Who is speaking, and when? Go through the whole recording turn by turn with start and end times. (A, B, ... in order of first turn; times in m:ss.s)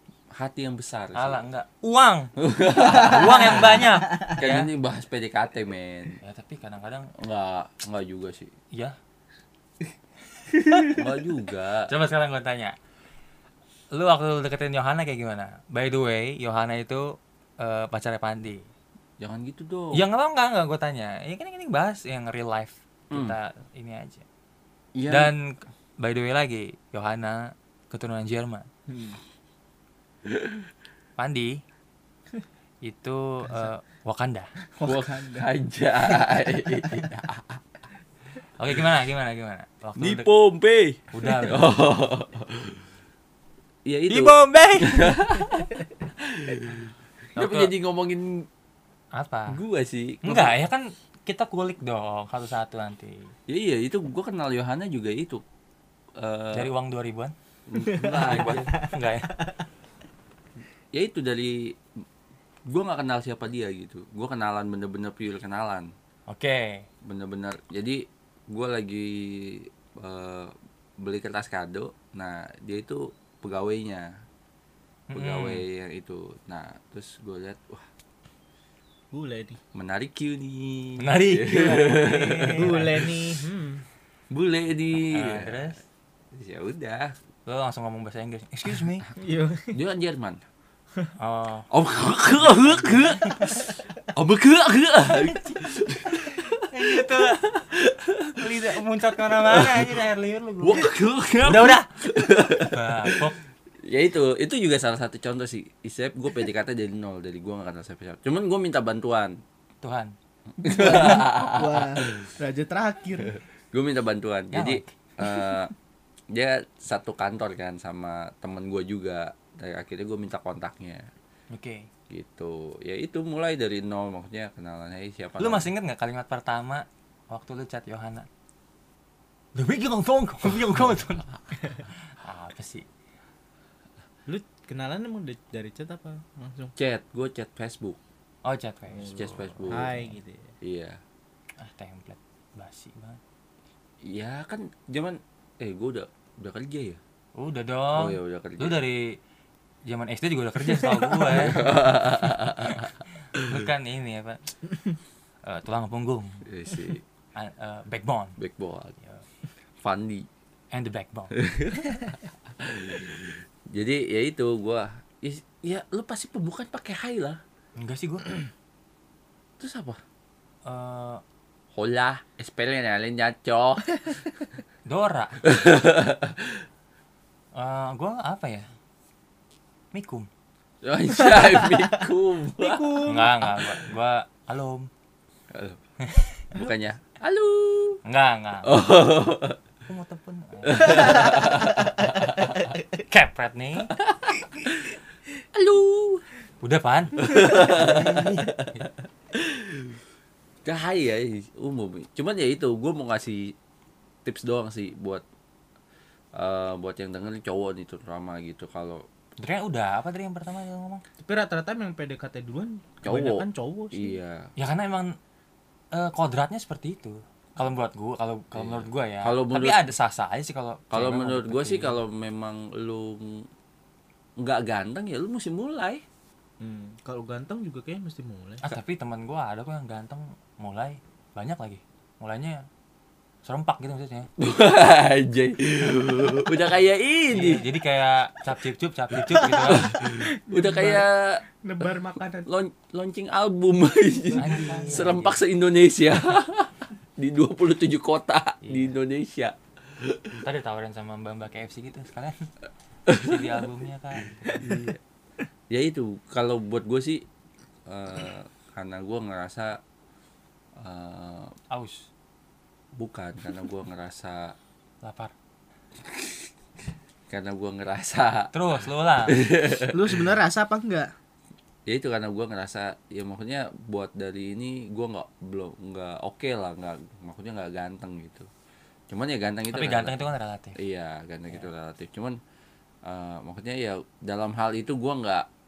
0:00.3-0:01.4 A
0:01.2-0:02.3 B
0:02.4-0:06.2 A
0:02.9-0:04.7 B
0:06.2-0:07.1 B
0:07.2-0:08.5 A
0:10.5-0:10.9 B
0:10.9-0:11.9 A
0:11.9-0:12.8 B
0:13.9-0:18.7 B
0:19.2-0:20.0 A
0:19.9-0:24.2 B
0:23.1-0:23.4 A
0:25.0-0:25.3 A
0:25.1-0:28.7 B
0:28.9-0:29.2 C
0:30.3-0:30.7 A
0:31.2-0:31.6 B
0:32.8-0:34.5 B
0:34.7-0:37.1 C
0:34.8-0:37.6 A
0:38.6-0:40.3 B
0:40.0-0:42.8 A
0:41.1-0:41.7 B
0:43.8-0:48.5 A
0:44.1-0:45.2 B
0:47.4-0:47.7 B
0:49.2-0:49.6 B
0:49.5-0:50.6 A
0:50.2-0:53.3 B
0:53.5-0:55.4 A
0:56.2-0:56.7 A
0:56.5-0:57.3 B
0:57.7-0:58.7 A
0:57.8-0:59.6 C
0:58.1-0:59.4 B
1:00.9-1:01.8 A
1:02.7-1:05.9 A
1:06.3-1:06.9 B
1:07.0-1:14.1 A
1:15.1-1:15.6 B
1:15.2-1:17.9 A
1:19.1-1:19.6 C
1:19.7-1:23.1 A
1:21.0-1:23.0 B
1:22.6-1:23.8 C
1:24.3-1:25.7 A
1:25.0-1:25.8 B
1:26.3-1:27.2 A
1:27.5-1:29.1 B
1:29.2-1:29.8 C
1:29.7-1:30.4 A
1:31.2-1:31.7 B
1:31.7-1:38.5 A
1:32.4-1:33.7 B
1:35.1-1:37.5 B
1:38.4-1:40.9 B
1:39.5-1:40.0 A
1:40.6-1:43.3 A
1:41.4-1:41.9 B
1:42.4-1:43.4 B
1:43.8-1:49.4 A
1:49.8-1:50.1 B
1:50.6-1:52.3 A
1:50.6-1:53.4 C
1:53.3-1:55.7 A
1:54.5-1:54.9 B
1:56.3-2:01.1 A
2:01.5-2:01.9 B
2:02.1-2:05.7 A
2:05.4-2:08.3 B
2:09.6-2:12.9 B
2:14.3-2:16.8 C
2:16.8-2:18.0 A
2:18.4-2:20.2 B
2:19.0-2:19.9 A
2:19.7-2:20.5 C
2:20.6-2:21.0 A
2:21.6-2:23.2 B
2:24.0-2:27.0 A
2:27.4-2:29.2 B
2:28.0-2:28.8 A
2:29.9-2:34.7 B
2:30.8-2:33.7 A
2:35.4-2:36.5 B
2:36.5-2:37.0 A
2:37.4-2:38.4 B
2:38.4-2:39.0 A
2:39.8-2:40.3 A
2:40.7-2:41.4 B
2:41.3-2:47.4 A
2:47.8-2:48.4 B
2:49.6-2:50.0 A
2:50.7-2:51.2 B
2:51.7-2:54.3 A
2:54.9-2:55.4 B
2:55.4-2:56.6 A
2:57.6-2:58.7 B
2:59.9-3:00.3 B
3:00.8-3:03.1 A
3:01.2-3:03.5 C
3:03.0-3:04.9 B
3:05.5-3:05.8 A
3:06.0-3:06.6 B
3:06.5-3:08.0 A
3:08.0-3:08.8 B
3:08.6-3:09.6 A
3:09.9-3:11.3 B
3:10.7-3:12.8 A
3:10.9-3:11.7 C
3:13.0-3:13.9 B
3:14.0-3:15.0 A
3:15.5-3:16.2 A
3:16.6-3:18.5 B
3:17.2-3:20.0 A
3:20.6-3:23.6 A
3:24.2-3:25.2 A
3:26.4-3:29.0 A
3:29.4-3:31.0 B
3:31.2-3:34.2 C
3:33.0-3:34.5 A
3:34.6-3:35.2 B
3:35.9-3:42.0 B
3:38.6-3:39.8 A
3:40.9-3:43.5 A
3:44.4-3:46.0 A
3:46.6-3:48.6 C
3:48.6-3:52.6 B
3:53.5-3:54.3 B
3:54.4-3:57.7 A
3:57.3-4:00.0 B
3:59.3-4:10.3 A
3:59.5-4:01.1 C
4:01.6-4:02.5 C
4:04.3-4:05.2 C
4:04.4-4:05.4 B
4:08.6-4:08.9 B
4:10.3-4:12.5 B
4:13.1-4:13.6 A
4:13.1-4:14.7 B
4:14.4-4:15.0 A
4:15.7-4:17.2 A
4:17.9-4:19.8 A
4:20.8-4:21.5 A
4:21.7-4:22.1 B
4:23.0-4:24.6 A
4:25.0-4:25.3 B
4:26.0-4:26.5 A
4:27.3-4:28.5 A
4:28.5-4:29.4 B
4:29.3-4:30.3 A
4:29.9-4:31.1 C
4:31.9-4:38.5 A
4:39.1-4:40.2 A
4:39.7-4:40.8 B
4:40.8-4:42.4 A
4:43.0-4:45.5 A